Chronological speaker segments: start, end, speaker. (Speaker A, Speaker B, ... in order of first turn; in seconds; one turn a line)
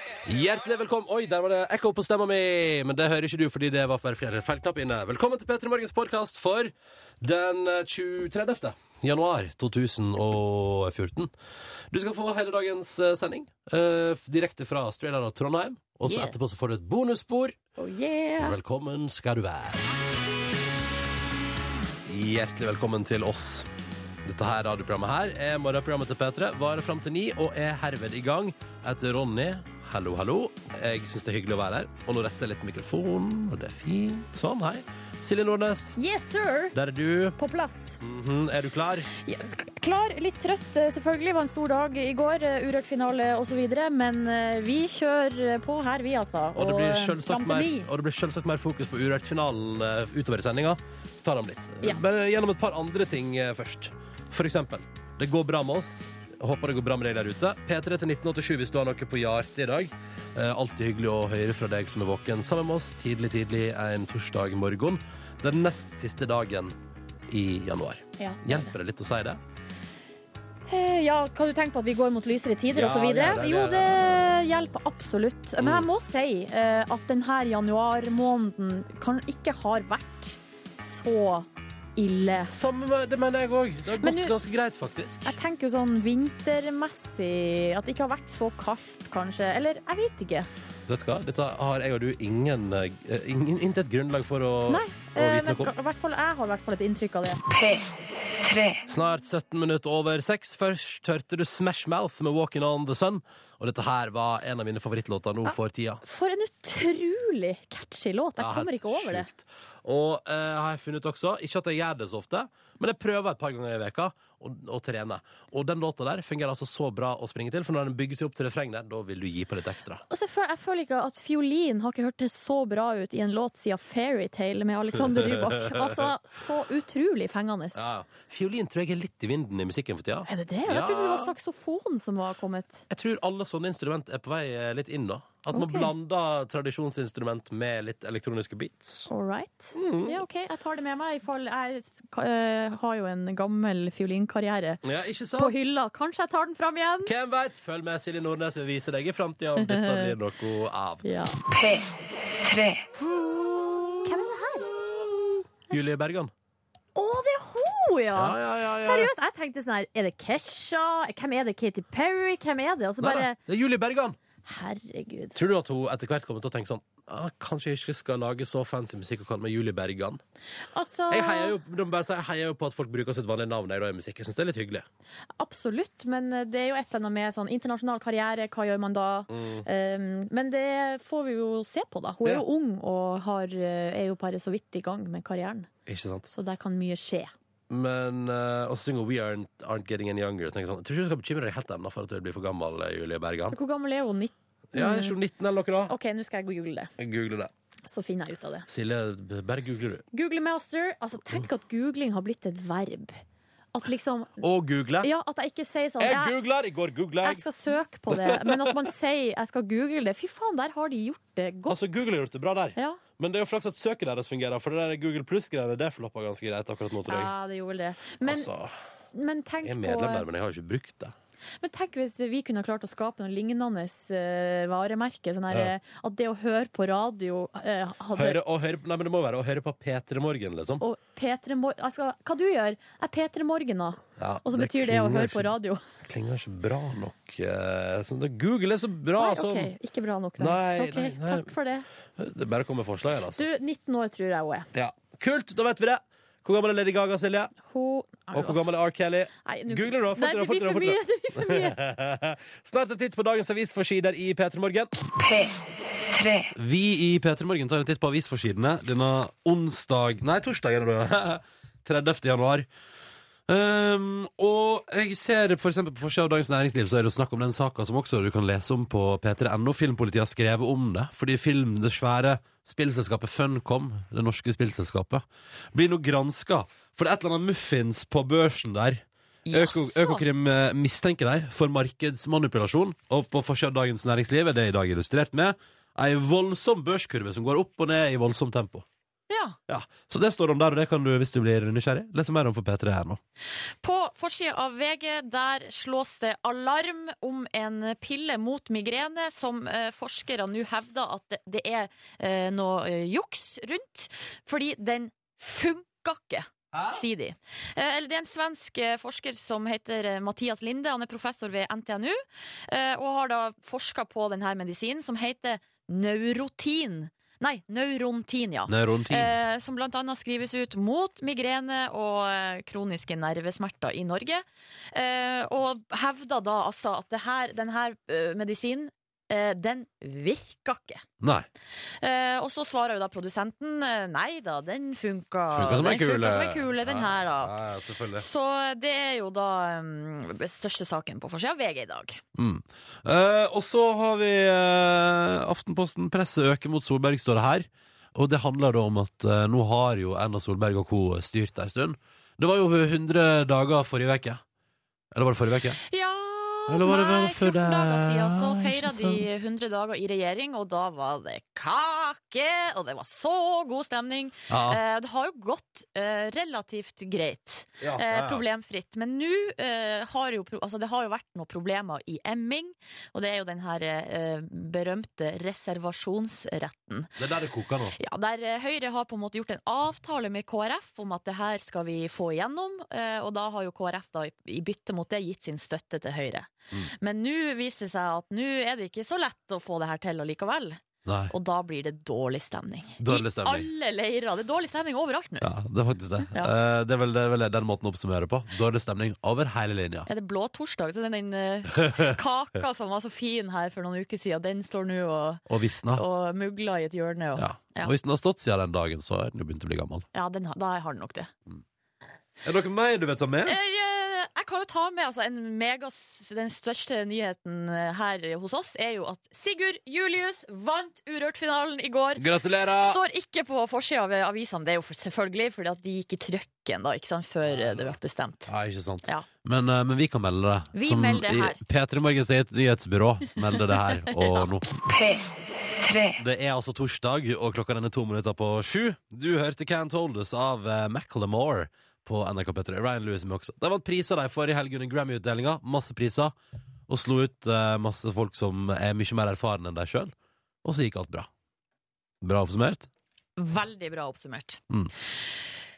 Speaker A: 0.2-11.3
Speaker A: 11.9-17.6
Speaker B: 16.1-16.3
Speaker B: 17.8-18.5
Speaker A: 18.4-19.9
Speaker A: 22.1-23.7
Speaker A: 24.2-36.0
Speaker B: 36.0-36.7
Speaker A: 36.7-37.4
Speaker B: 37.4-38.0
Speaker A: 38.0-39.1
Speaker B: 39.2-47.9
Speaker A: 46.5-66.7
Speaker A: 67.3-69.4
Speaker B: 68.2-68.7
Speaker B: 70.7-82.5
Speaker A: 72.7-74.3
Speaker A: 75.6-75.9
Speaker A: 82.5-85.4
Speaker B: 84.0-84.3
Speaker B: 85.2-90.5
Speaker A: 90.9-95.7
Speaker B: 94.7-97.4
Speaker A: 98.9-106.0
Speaker B: 105.4-109.3
Speaker A: 108.4-120.0
Speaker B: 120.1-127.8
Speaker A: 124.9-126.2
Speaker A: 127.7-131.4
Speaker B: 130.3-132.8
Speaker A: 132.9-139.1
Speaker B: 135.5-135.9
Speaker B: 139.1-144.8
Speaker A: 139.7-140.2
Speaker A: 144.8-145.7
Speaker B: 145.4-147.1
Speaker A: 147.0-151.1
Speaker B: 149.6-150.1
Speaker B: 151.0-151.4
Speaker A: 153.0-156.3
Speaker B: 154.0-154.7
Speaker B: 156.9-163.4
Speaker A: 158.1-159.1
Speaker A: 163.0-164.2
Speaker B: 164.5-165.3
Speaker A: 165.3-170.2
Speaker B: 170.7-171.5
Speaker A: 171.1-174.8
Speaker B: 175.4-185.7
Speaker A: 179.3-179.7
Speaker A: 185.8-186.3
Speaker B: 186.3-187.3
Speaker A: 187.7-193.6
Speaker B: 193.5-195.1
Speaker A: 194.7-195.9
Speaker B: 195.9-196.9
Speaker A: 197.0-197.5
Speaker B: 197.9-198.6
Speaker A: 198.7-200.0
Speaker B: 200.1-203.2
Speaker B: 203.7-204.4
Speaker A: 204.4-205.1
Speaker B: 205.0-206.3
Speaker A: 206.0-207.4
Speaker B: 207.2-211.8
Speaker A: 208.1-208.8
Speaker A: 211.7-217.3
Speaker B: 212.8-213.0
Speaker B: 217.1-218.5
Speaker A: 218.2-218.7
Speaker B: 219.1-220.2
Speaker A: 219.6-221.1
Speaker B: 221.6-228.4
Speaker A: 228.1-230.8
Speaker B: 230.8-235.8
Speaker A: 234.2-235.6
Speaker A: 236.1-239.7
Speaker B: 239.2-241.8
Speaker A: 240.4-241.5
Speaker A: 242.2-243.5
Speaker B: 243.3-244.7
Speaker A: 244.7-247.5
Speaker B: 247.6-248.7
Speaker A: 248.3-254.9
Speaker B: 249.4-251.8
Speaker A: 256.5-262.7
Speaker A: 263.5-288.9
Speaker B: 279.5-280.2
Speaker B: 289.3-289.6
Speaker A: 289.7-293.2
Speaker B: 293.8-331.0
Speaker A: 306.7-307.0
Speaker A: 318.7-319.3
Speaker A: 331.2-331.5
Speaker B: 332.0-337.5
Speaker A: 335.5-338.2
Speaker B: 338.2-342.2
Speaker A: 342.3-354.4
Speaker A: 355.1-355.8
Speaker B: 355.9-377.1
Speaker A: 356.7-359.2
Speaker A: 364.5-364.8
Speaker A: 367.8-368.4
Speaker A: 377.2-377.9
Speaker B: 378.0-395.5
Speaker A: 391.0-391.3
Speaker A: 393.0-393.7
Speaker A: 395.4-400.1
Speaker B: 400.1-405.4
Speaker A: 401.8-402.1
Speaker A: 405.5-406.0
Speaker B: 405.9-407.9
Speaker A: 407.4-410.1
Speaker B: 410.1-411.3
Speaker A: 412.4-413.6
Speaker B: 413.4-428.5
Speaker A: 422.1-423.0
Speaker A: 427.5-427.9
Speaker A: 428.5-434.6
Speaker B: 430.7-431.6
Speaker A: 436.1-446.3
Speaker A: 446.9-450.1
Speaker A: 450.6-451.3
Speaker A: 452.2-452.9
Speaker B: 453.4-454.6